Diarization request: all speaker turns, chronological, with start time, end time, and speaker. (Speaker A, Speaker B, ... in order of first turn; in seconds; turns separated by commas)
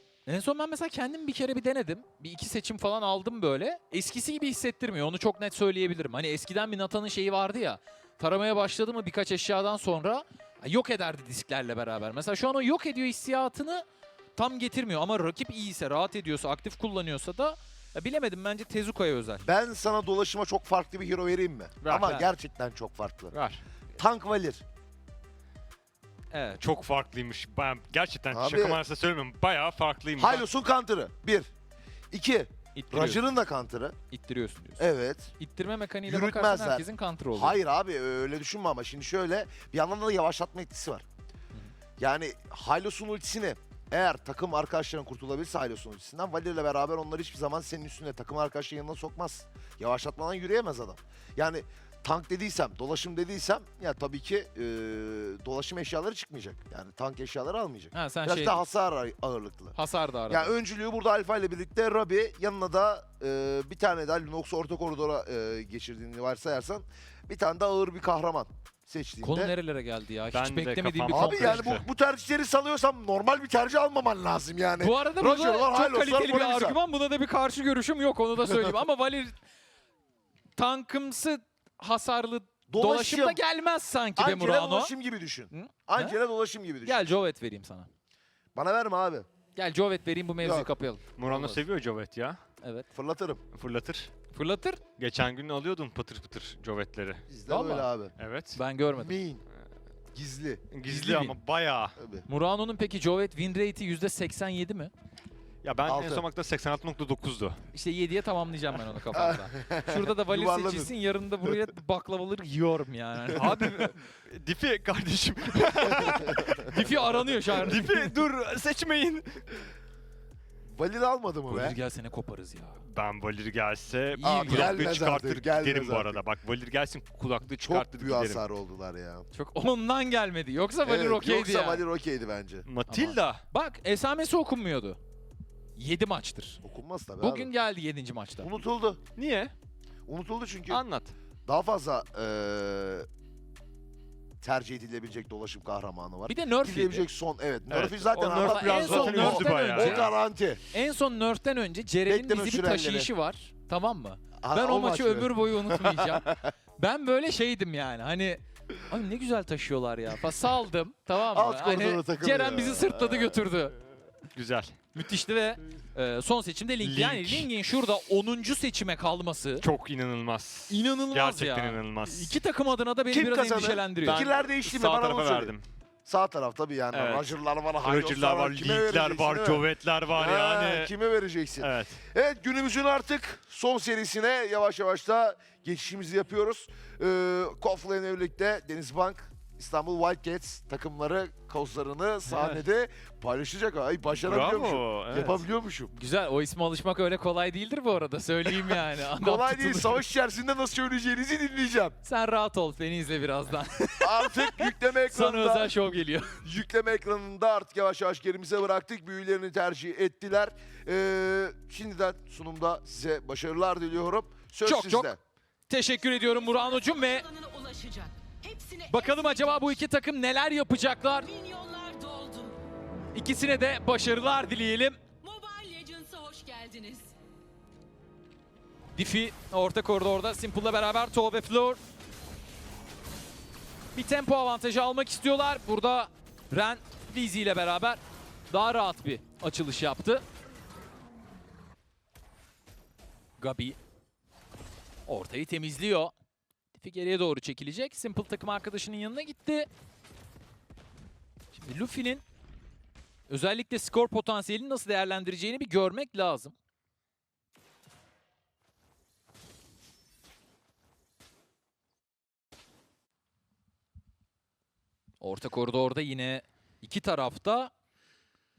Speaker A: 0.2-13.8, Speaker A: 14.3-19.5, Speaker B: 19.4-23.3, Speaker C: 21.8-22.3, Speaker C: 23.3-23.6, Speaker B: 23.9-24.6, Speaker A: 26.3-26.6, Speaker C: 26.6-30.4, Speaker B: 28.3-28.8, Speaker B: 30.2-31.5, Speaker B: 32.1-34.0, Speaker A: 32.8-33.2, Speaker A: 34.1-34.9, Speaker B: 34.8-35.3, Speaker A: 35.4-37.6, Speaker B: 36.0-41.0, Speaker B: 42.0-59.8, Speaker A: 57.9-58.6, Speaker A: 59.7-60.5, Speaker B: 60.3-69.5, Speaker A: 69.2-71.8, Speaker C: 70.3-71.8, Speaker B: 71.1-76.8, Speaker A: 74.8-79.3, Speaker A: 80.6-84.9, Speaker B: 82.7-83.4, Speaker B: 84.2-87.0, Speaker A: 85.5-86.2, Speaker A: 86.8-87.9, Speaker B: 88.5-89.3, Speaker A: 89.5-91.6, Speaker B: 90.4-90.7, Speaker C: 91.2-92.4, Speaker A: 92.6-92.9, Speaker B: 92.9-93.4, Speaker C: 93.5-94.1, Speaker A: 94.3-94.8, Speaker C: 95.0-97.3, Speaker B: 97.3-98.1, Speaker A: 97.5-97.9, Speaker C: 98.2-98.6, Speaker A: 98.5-99.2, Speaker B: 98.9-99.5, Speaker B: 100.1-100.7, Speaker C: 100.7-102.0, Speaker A: 100.8-101.3, Speaker B: 102.0-102.3, Speaker A: 102.3-104.9, Speaker C: 105.6-107.6, Speaker B: 105.8-106.2, Speaker A: 107.7-113.9, Speaker B: 109.1-110.9, Speaker C: 113.3-116.9, Speaker B: 116.0-116.4, Speaker A: 116.4-118.1, Speaker C: 117.5-119.5, Speaker B: 120.7-121.8, Speaker A: 121.5-122.8, Speaker C: 122.8-128.4, Speaker A: 124.1-124.9, Speaker B: 124.2-126.2, Speaker B: 127.6-129.2, Speaker A: 129.3-131.8, Speaker B: 130.8-132.7, Speaker C: 132.6-133.4, Speaker A: 132.9-135.0, Speaker A: 135.8-136.6, Speaker B: 136.6-137.5, Speaker A: 137.2-138.5, Speaker B: 138.4-139.0, Speaker C: 139.2-139.5, Speaker B: 140.1-140.8, Speaker C: 140.7-141.1, Speaker B: 141.4-143.1, Speaker B: 144.4-150.6, Speaker A: 146.3-147.1, Speaker C: 147.7-150.1, Speaker A: 148.3-150.1, Speaker A: 150.7-163.7, Speaker B: 152.1-153.1, Speaker B: 154.4-156.5, Speaker B: 161.3-163.4, Speaker C: 164.3-164.8, Speaker A: 164.9-169.7, Speaker C: 166.8-167.5, Speaker C: 169.6-172.3, Speaker A: 170.7-174.3, Speaker B: 173.1-175.5, Speaker C: 174.0-175.6, Speaker B: 176.0-195.9, Speaker C: 176.9-177.3, Speaker C: 177.8-180.9, Speaker C: 181.6-182.0, Speaker C: 192.3-192.6, Speaker C: 194.1-195.4, Speaker A: 195.9-200.0, Speaker B: 198.7-201.9, Speaker A: 202.0-206.4, Speaker B: 204.0-205.7, Speaker B: 206.4-215.2, Speaker A: 214.6-215.1, Speaker A: 215.7-217.2, Speaker D: 216.0-219.8, Speaker A: 218.9-221.3, Speaker D: 221.2-222.6, Speaker A: 223.1-225.0, Speaker D: 225.2-227.1, Speaker A: 228.9-231.8, Speaker A: 233.9-240.2, Speaker A: 243.4-243.8, Speaker A: 245.1-246.1, Speaker A: 246.8-249.7, Speaker A: 251.5-252.2, Speaker A: 253.3-256.5, Speaker A: 265.2-267.7